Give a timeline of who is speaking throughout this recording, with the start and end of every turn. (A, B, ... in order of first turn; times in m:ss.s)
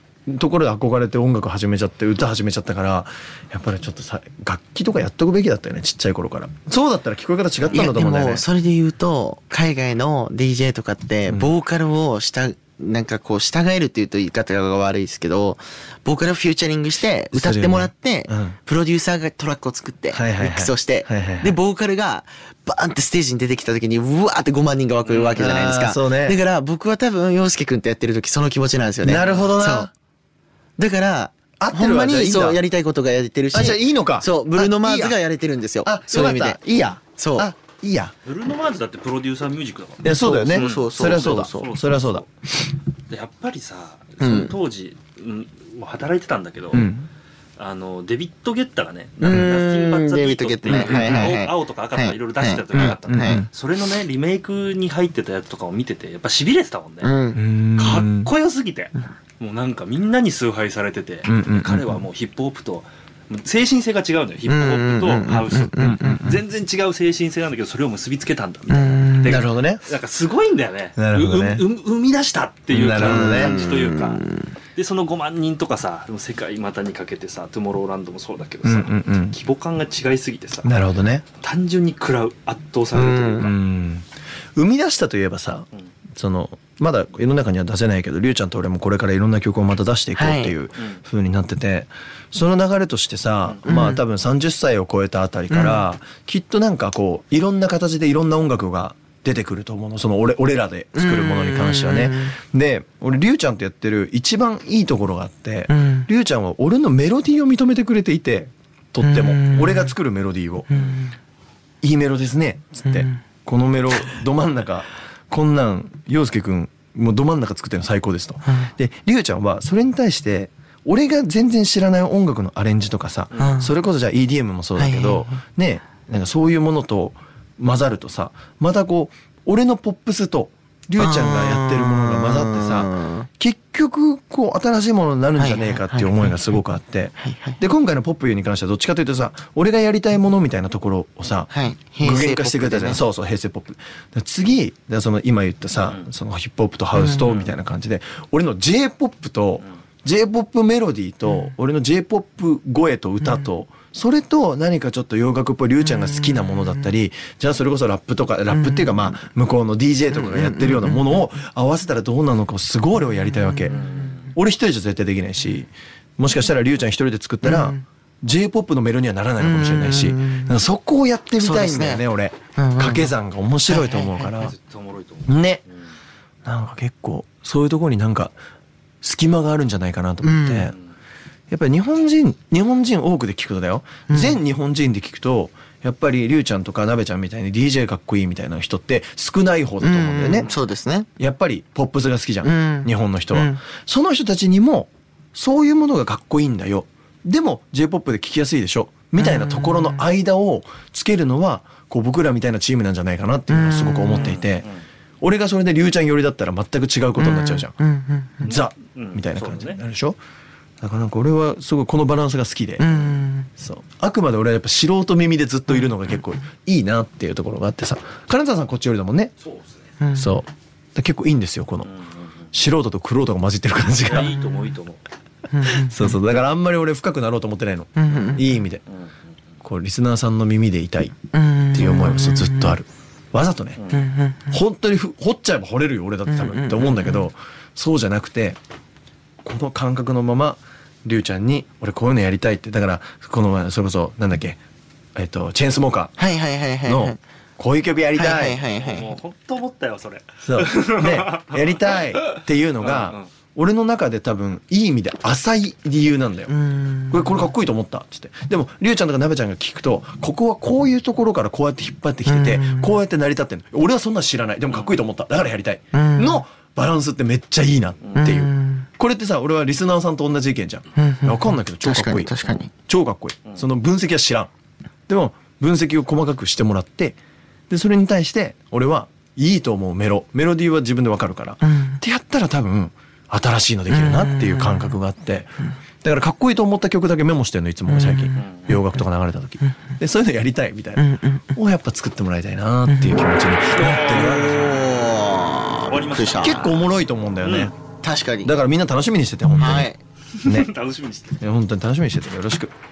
0:00.3-0:08.4 A
0:07.7-0:29.9 B
0:11.3-0:11.5 A
0:17.3-0:18.6 A
0:20.1-0:21.6 A
0:25.1-0:25.4 C
0:25.3-0:26.4 A
0:29.0-0:29.9 A
0:30.8-0:36.6 B
0:31.6-0:32.6 A
0:33.5-0:35.2 A
0:35.8-0:38.2 A
0:37.2-0:37.5 B
0:38.2-0:42.3 C
0:40.0-0:42.3 A
0:40.1-0:41.7 B
0:43.1-0:46.9 C
0:44.2-0:44.6 B
0:46.7-0:47.1 A
0:47.6-0:57.1 C
0:49.2-0:53.5 B
0:49.3-0:49.5 A
0:50.7-0:51.4 A
0:52.7-0:53.5 A
0:57.0-0:57.4 B
0:57.3-0:58.3 A
0:57.8-1:14.2 C
1:01.3-1:02.0 A
1:04.5-1:06.3 B
1:05.8-1:06.4 A
1:08.7-1:09.4 B
1:09.2-1:09.9 A
1:11.0-1:11.7 A
1:12.7-1:13.6 A
1:13.0-1:14.6 B
1:14.8-1:20.7 C
1:18.6-1:19.4 A
1:20.6-1:21.2 A
1:21.4-1:23.5 C
1:22.9-1:23.5 B
1:23.4-1:50.9 A
1:30.2-1:30.6 B
1:33.6-1:34.0 B
1:35.5-1:35.9 B
1:41.0-1:42.4 B
1:45.7-1:46.1 B
1:49.0-1:50.0 B
1:50.7-1:51.2 B
1:51.8-2:54.6 A
1:52.9-1:53.2 B
2:03.4-2:03.7 B
2:04.8-2:05.4 B
2:11.0-2:13.3 B
2:15.4-2:16.4 B
2:17.2-2:17.6 B
2:21.5-2:23.0 B
2:25.8-2:26.1 C
2:27.2-2:27.6 C
2:40.1-2:41.2 B
2:43.7-2:44.0 B
2:43.7-2:44.3 C
2:47.4-2:47.8 B
2:49.4-2:50.6 B
2:51.4-2:53.2 B
2:53.7-2:54.3 B
2:54.4-2:56.0 C
2:55.3-2:55.6 A
2:56.4-2:58.3 A
2:59.0-3:00.8 A
3:00.2-3:00.7 B
3:01.5-3:10.5 A
3:04.1-3:04.4 B
3:09.8-3:11.1 B
3:11.2-3:24.7 A
3:12.4-3:13.6 B
3:19.2-3:20.0 B
3:23.5-3:24.3 B
3:24.1-3:24.8 C
3:25.2-3:27.8 A
3:27.2-3:28.5 B
3:28.4-3:30.2 A
3:28.5-3:29.8 C
3:30.8-3:33.0 A
3:32.8-3:33.5 B
3:33.6-3:39.3 A
3:39.4-3:39.8 C
3:40.0-3:40.3 B
3:40.1-3:41.9 A
3:41.8-3:42.5 C
3:42.5-3:44.4 A
3:44.0-3:45.0 C
3:45.5-3:46.1 B
3:45.6-3:48.8 A
3:48.0-3:48.6 B
3:49.6-3:51.2 A
3:51.3-3:52.8 B
3:51.7-3:53.8 A
3:53.8-3:54.1 C
3:53.9-3:54.6 B
3:54.5-3:58.6 A
3:56.3-3:57.3 B
3:59.4-4:04.6 A
4:05.2-4:06.2 A
4:06.2-4:07.2 B
4:06.8-4:08.6 A
4:08.2-4:09.2 B
4:08.6-4:12.0 C
4:10.4-4:16.6 A
4:12.8-4:13.3 C
4:16.5-4:17.5 B
4:17.1-4:34.5 A
4:22.3-4:23.0 B
4:25.9-4:26.4 B
4:28.2-4:28.9 B
4:31.0-4:32.7 B
4:35.1-4:37.2 A
4:37.7-4:54.6 A
4:41.6-4:42.0 B
4:43.9-4:44.9 B
4:47.9-4:48.4 B
4:48.4-4:48.8 C
4:51.0-4:51.5 B
4:53.7-4:55.0 C
4:54.4-4:56.7 B
4:55.9-4:56.8 C
4:56.4-4:57.8 A
4:57.4-4:57.7 C
4:58.0-4:58.5 B
4:58.4-4:59.9 A
4:59.6-5:00.0 B
5:00.4-5:01.4 C
5:00.4-5:00.7 A
5:01.4-5:02.7 A